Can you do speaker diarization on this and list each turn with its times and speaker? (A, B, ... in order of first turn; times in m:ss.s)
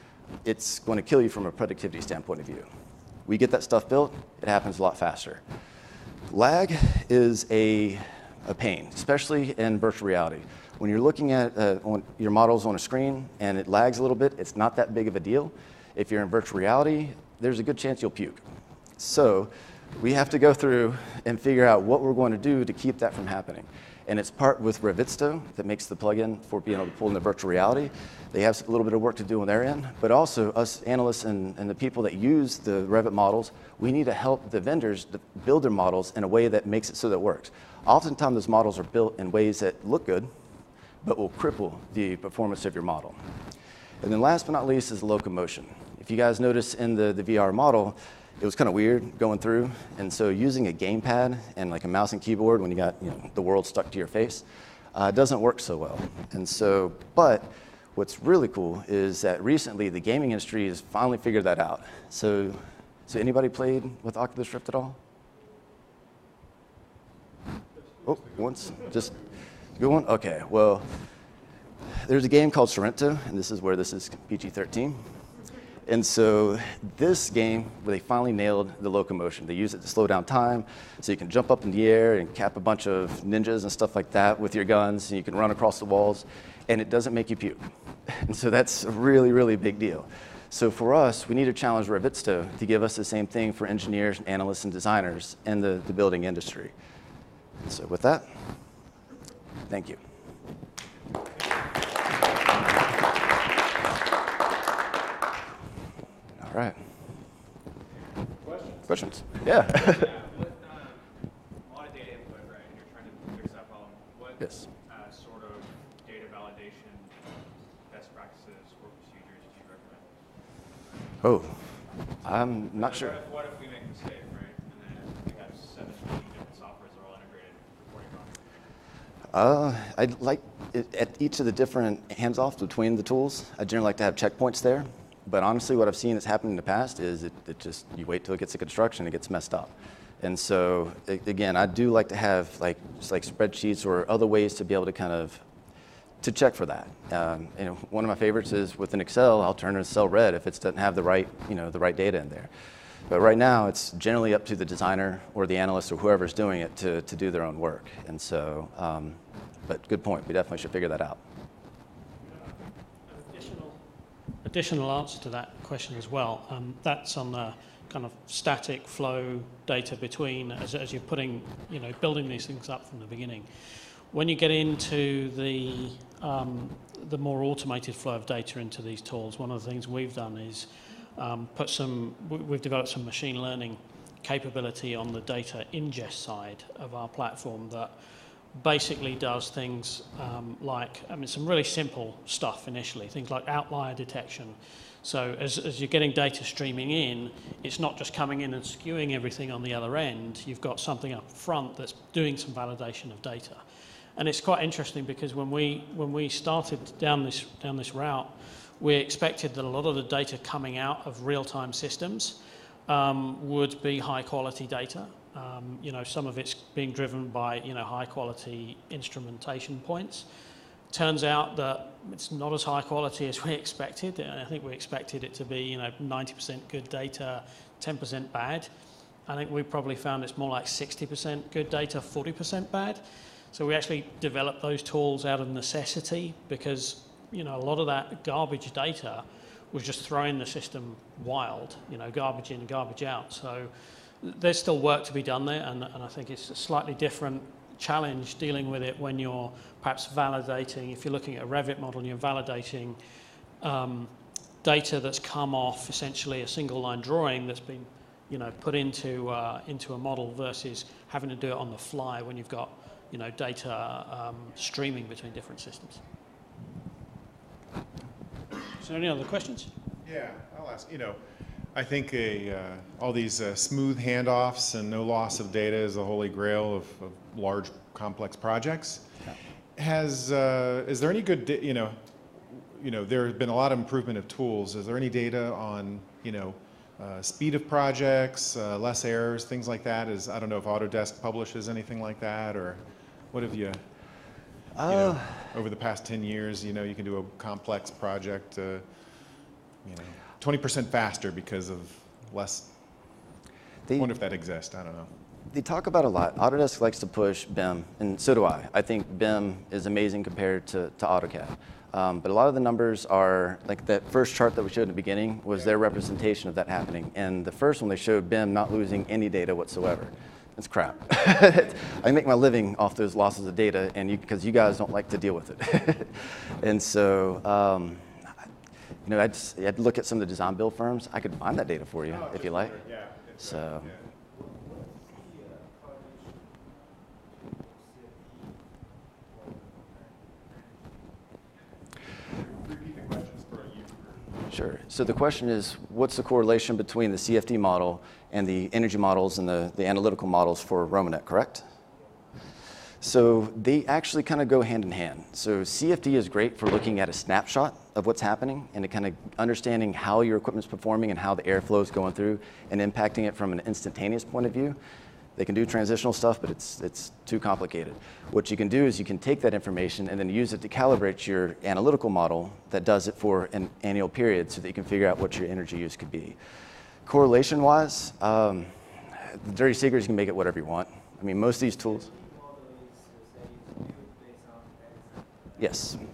0:00.4-0:02.6 A
0:03.2-0:05.4 A
0:06.3-0:18.4 A
0:19.0-0:40.3 A
0:41.0-0:43.2 A
0:44.0-1:05.0 A
1:08.0-1:09.1 A
1:09.8-1:10.8 A
1:11.9-1:15.0 A
1:15.8-1:36.7 A
1:37.6-1:38.3 A
1:39.7-1:40.0 A
1:46.4-1:46.8 A
1:48.9-1:50.1 A
1:49.7-1:51.0 B
1:51.6-1:57.1 B
1:57.8-2:00.0 B
2:01.2-2:01.6 A
2:02.2-2:03.2 A
2:02.7-2:08.5 B
2:09.3-2:25.4 A
2:26.2-2:32.5 A
2:33.1-2:41.2 A
2:43.1-2:43.8 C
2:44.4-3:07.9 C
3:08.5-3:23.6 C
3:24.2-3:40.3 C
3:40.9-3:48.7 C
3:49.3-4:13.0 C
4:13.6-4:26.0 C
4:28.8-4:29.7 C
4:30.0-4:31.2 D
4:31.7-4:39.0 D
4:39.8-4:53.8 D
4:54.8-4:55.3 A
4:54.8-4:59.0 D
4:59.8-5:02.7 D
5:04.0-5:05.1 D
5:05.5-5:28.2 A
5:29.0-5:32.8 A
5:32.1-5:34.0 D
5:33.4-5:33.9 A
5:42.3-5:44.3 D
5:44.5-5:51.6 A
5:53.0-6:04.8 A
6:05.4-6:16.4 A
6:17.0-6:22.1 A
6:25.6-6:26.0 A